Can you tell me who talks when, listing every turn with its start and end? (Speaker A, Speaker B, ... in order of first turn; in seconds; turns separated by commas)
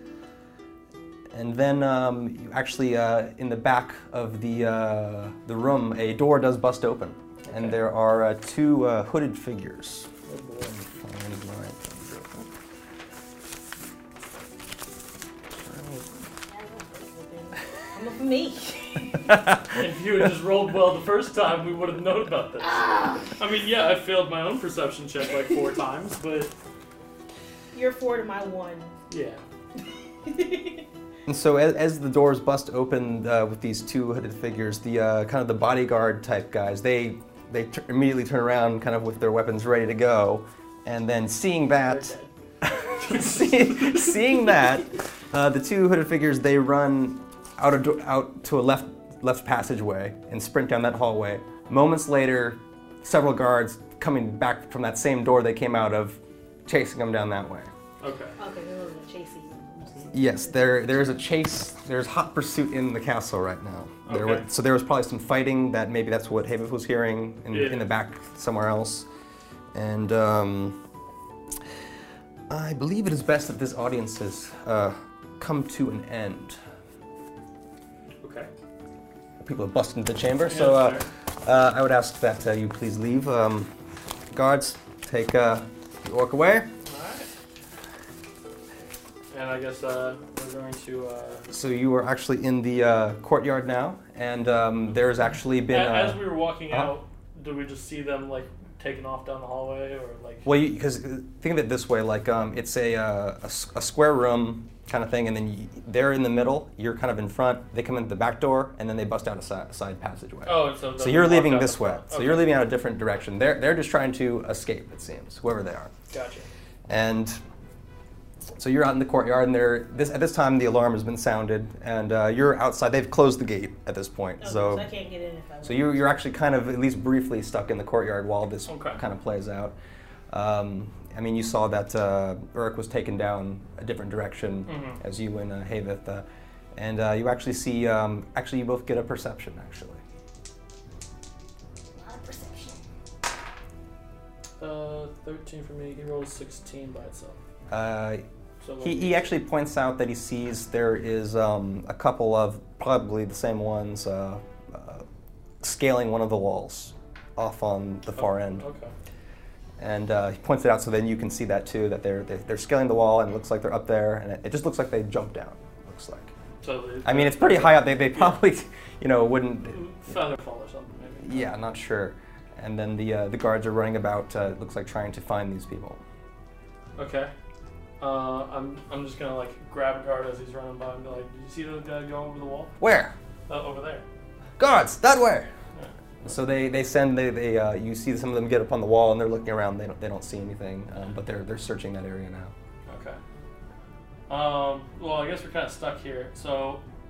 Speaker A: 1.3-10.1, Speaker B: 7.5-7.8, Speaker B: 10.2-10.8, Speaker A: 10.7-12.5, Speaker A: 15.6-16.2, Speaker C: 16.5-19.3, Speaker A: 19.3-19.8, Speaker B: 19.7-26.5, Speaker C: 22.6-23.3, Speaker C: 27.7-28.9, Speaker B: 29.1-29.4, Speaker C: 30.2-30.8, Speaker A: 31.3-42.1, Speaker B: 41.9-42.3, Speaker A: 42.6-57.7, Speaker B: 42.9-44.0, Speaker B: 58.0-58.3, Speaker C: 58.4-61.1, Speaker A: 60.1-69.1, Speaker B: 64.0-64.4, Speaker B: 67.5-67.8, Speaker A: 69.7-70.8, Speaker A: 72.5-76.6, Speaker B: 78.2-78.5, Speaker A: 79.4-83.7, Speaker B: 80.4-81.1, Speaker A: 84.3-86.7, Speaker B: 86.8-87.3, Speaker B: 89.3-91.4, Speaker A: 91.5-96.9, Speaker B: 95.7-100.5, Speaker A: 100.4-115.9, Speaker B: 110.5-112.6, Speaker B: 116.1-116.5, Speaker A: 116.9-117.4, Speaker A: 118.5-124.9, Speaker C: 124.4-126.0, Speaker A: 125.6-129.7, Speaker B: 128.7-129.0, Speaker A: 130.3-140.0, Speaker B: 134.7-135.0, Speaker C: 141.9-142.8, Speaker B: 144.6-147.4, Speaker A: 147.7-148.2, Speaker B: 148.6-149.3, Speaker A: 148.8-155.0, Speaker A: 155.6-158.6, Speaker B: 158.2-158.9, Speaker A: 159.8-166.3, Speaker B: 166.6-168.4, Speaker A: 167.0-170.1, Speaker B: 169.6-171.5, Speaker A: 171.2-176.0, Speaker B: 176.9-177.3, Speaker B: 178.0-182.8, Speaker A: 182.8-183.1, Speaker B: 183.5-184.0, Speaker A: 184.6-185.5, Speaker A: 186.2-192.5, Speaker B: 192.8-193.2, Speaker B: 194.3-196.8